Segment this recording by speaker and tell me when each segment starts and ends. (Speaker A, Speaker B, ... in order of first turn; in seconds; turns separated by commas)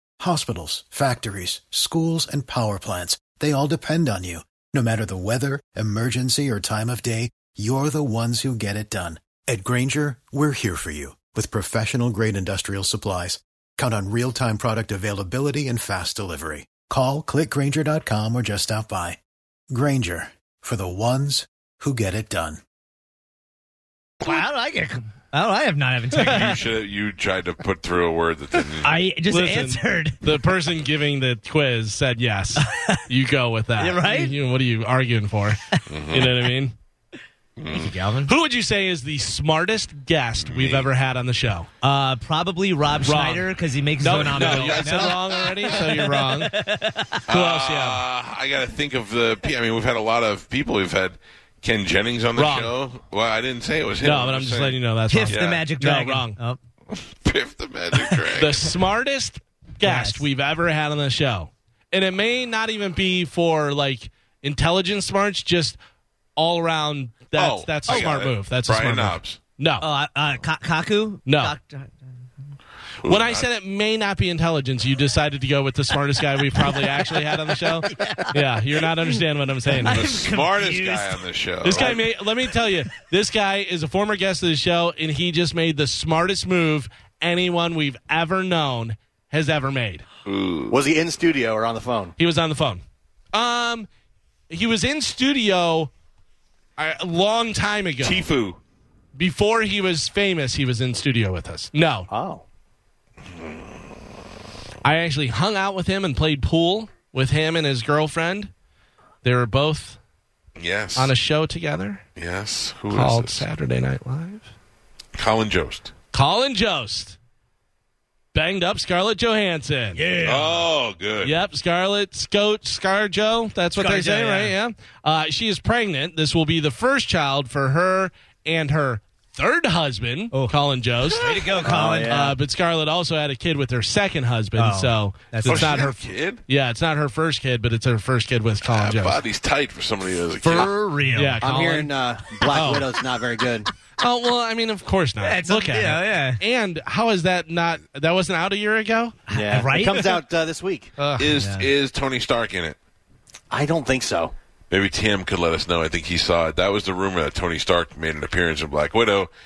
Speaker A: 0.2-19.2, Speaker A: 19.7-22.6, Speaker B: 24.2-26.6, Speaker C: 26.1-29.0, Speaker B: 28.8-30.5, Speaker D: 29.3-36.8, Speaker B: 32.6-33.0, Speaker B: 33.8-34.4, Speaker C: 35.9-36.4, Speaker C: 37.6-38.0, Speaker B: 37.7-38.3, Speaker D: 38.3-41.7, Speaker C: 40.4-40.9, Speaker B: 41.8-47.3, Speaker D: 43.1-43.5, Speaker D: 44.0-46.5, Speaker C: 44.1-45.8, Speaker D: 47.3-48.0, Speaker C: 47.3-54.8, Speaker D: 52.4-52.7, Speaker D: 54.0-56.4, Speaker B: 55.1-56.6, Speaker C: 55.3-55.6, Speaker C: 56.9-58.7, Speaker D: 58.4-65.8, Speaker B: 59.8-60.2, Speaker D: 66.4-69.9, Speaker C: 67.3-69.4, Speaker B: 69.8-72.1, Speaker D: 71.3-71.5, Speaker C: 73.0-73.4, Speaker D: 73.0-80.2, Speaker B: 77.9-78.3, Speaker B: 79.7-81.2, Speaker C: 79.9-82.0, Speaker D: 81.6-90.0, Speaker C: 90.2-90.8, Speaker E: 90.7-92.1, Speaker D: 92.2-92.8, Speaker D: 93.3-93.9, Speaker D: 94.5-95.9, Speaker D: 96.8-98.3, Speaker C: 98.0-98.6, Speaker D: 99.2-102.1, Speaker E: 102.1-102.4, Speaker D: 104.8-108.5, Speaker D: 109.2-110.0, Speaker C: 110.6-111.1, Speaker D: 111.0-112.0, Speaker C: 112.2-113.5, Speaker D: 112.9-114.5, Speaker C: 115.2-115.9, Speaker D: 116.1-117.2, Speaker D: 118.3-120.0, Speaker B: 120.0-120.7, Speaker C: 120.2-121.4, Speaker D: 121.2-131.3, Speaker B: 123.8-124.5, Speaker B: 131.1-132.2, Speaker C: 131.1-131.6, Speaker E: 131.6-132.3, Speaker D: 132.0-139.2, Speaker B: 134.6-135.9, Speaker C: 135.4-136.4, Speaker C: 138.7-140.7, Speaker B: 140.4-141.4, Speaker D: 141.2-141.9, Speaker E: 141.4-143.7, Speaker D: 142.5-142.9, Speaker D: 144.0-149.2, Speaker B: 145.2-146.4, Speaker B: 149.3-150.1, Speaker E: 149.3-150.9, Speaker D: 151.0-151.3, Speaker C: 151.2-152.8, Speaker B: 151.3-151.7, Speaker E: 153.5-154.3, Speaker C: 154.7-159.3